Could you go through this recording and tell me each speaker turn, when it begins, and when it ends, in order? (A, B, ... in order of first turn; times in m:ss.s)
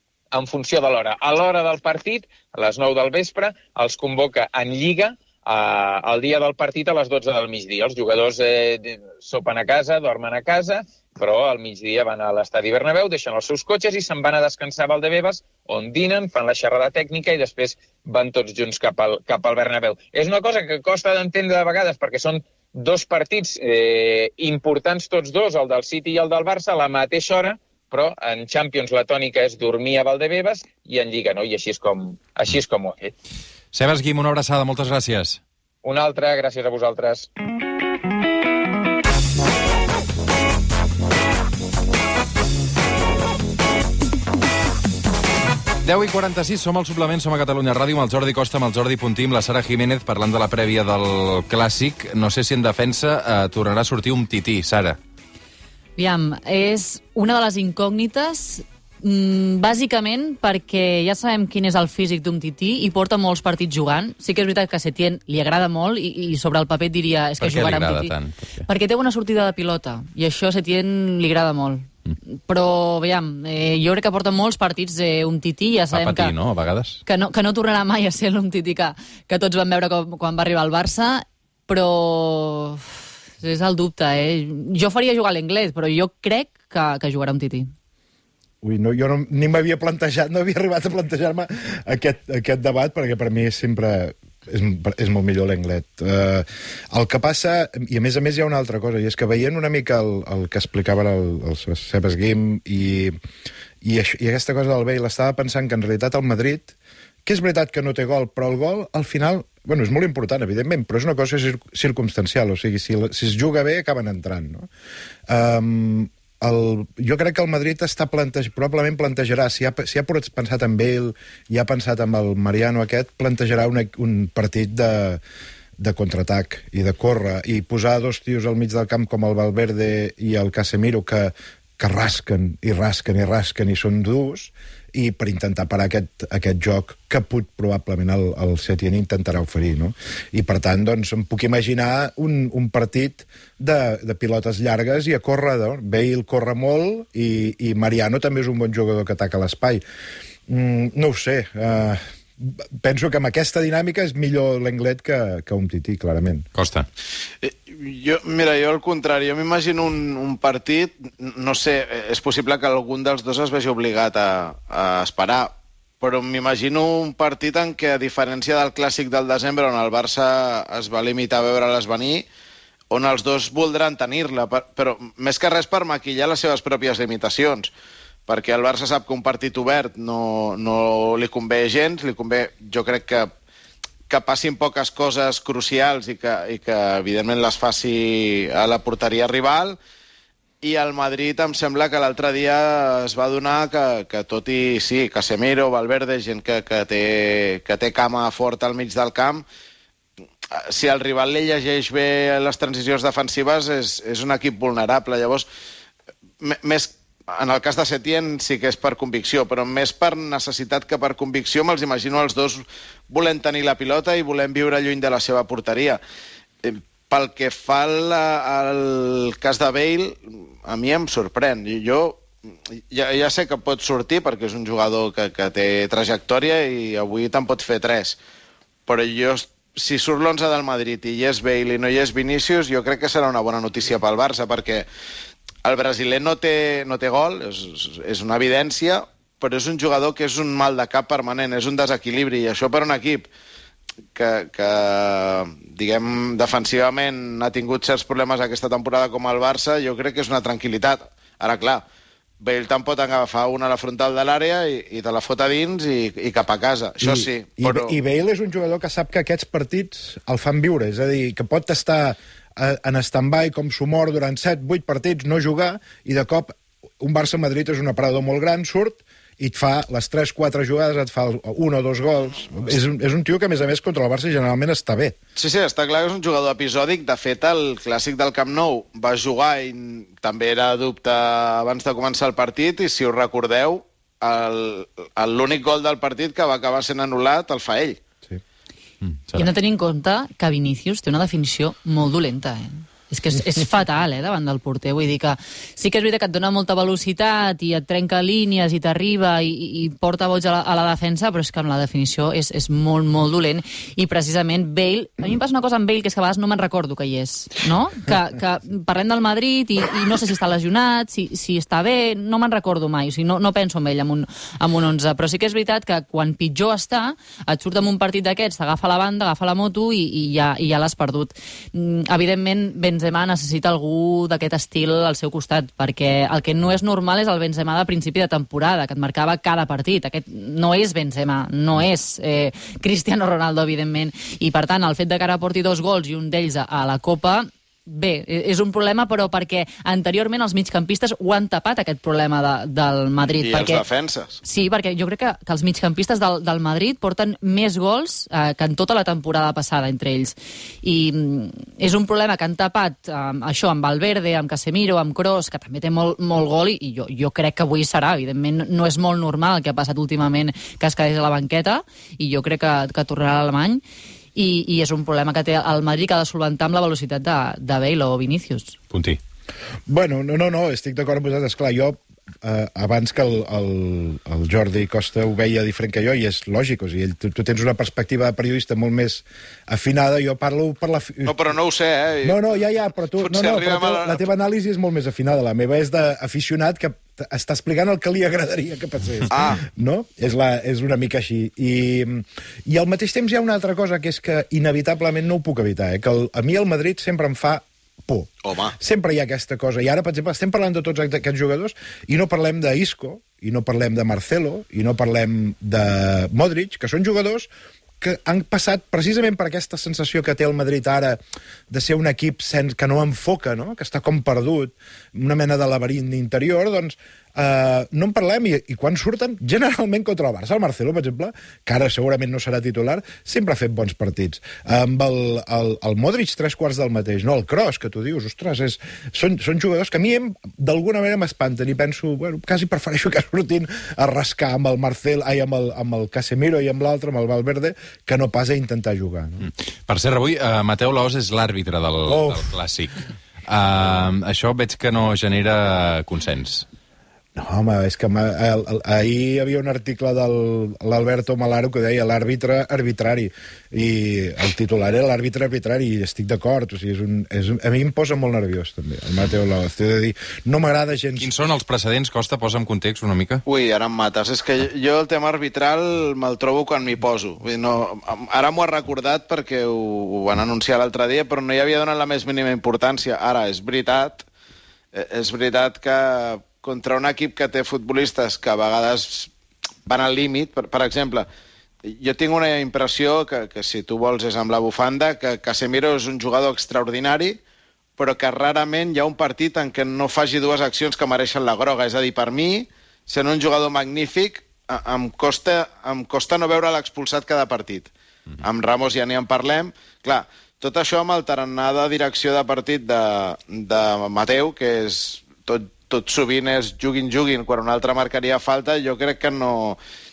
0:00.3-0:33.1 A
0:33.7-0:35.4 B
0:35.8-0:37.3 A
0:45.8-0:55.0 B
0:56.0-1:11.9 C
1:07.4-1:08.6 B
1:12.5-1:16.4 C
1:15.9-1:17.0 B
1:17.0-1:22.8 C
1:23.4-1:27.7 C
1:28.6-1:43.2 D
1:43.8-1:46.7 D
1:47.2-1:54.7 D
1:55.3-2:05.2 D
2:05.8-2:29.8 D
2:30.5-2:36.5 D
2:36.5-2:36.9 B
2:37.4-2:52.3 E
2:52.9-2:57.7 E
2:58.3-3:03.3 E
3:04.1-3:09.8 E
3:10.6-3:19.4 E
3:20.5-3:25.5 E
3:26.4-3:36.0 E
3:36.6-3:42.3 E
3:42.9-3:48.2 E
3:48.9-3:54.9 E
3:55.6-4:03.3 E
4:04.2-4:11.8 E
4:12.4-4:17.9 E
4:17.0-4:35.2 D
4:35.4-4:48.0 E
4:49.1-4:49.5 B
4:49.4-5:43.8 C
5:43.4-5:44.4 E
5:44.4-6:03.8 C
6:04.4-6:08.8 C
6:08.9-6:09.2 B
6:09.9-6:21.4 D
6:21.2-6:22.6 E
6:22.2-6:47.5 D
6:23.2-6:24.2 E
6:29.3-6:29.6 E
6:38.4-6:38.8 E
6:48.0-7:19.5 D
7:19.4-7:26.6 B
7:22.1-7:22.5 D
7:27.4-7:41.3 D
7:41.2-7:43.4 B
7:43.5-7:54.3 E
7:54.9-7:59.3 E
7:59.9-8:01.3 E
8:01.8-8:07.4 E
8:08.0-8:29.8 E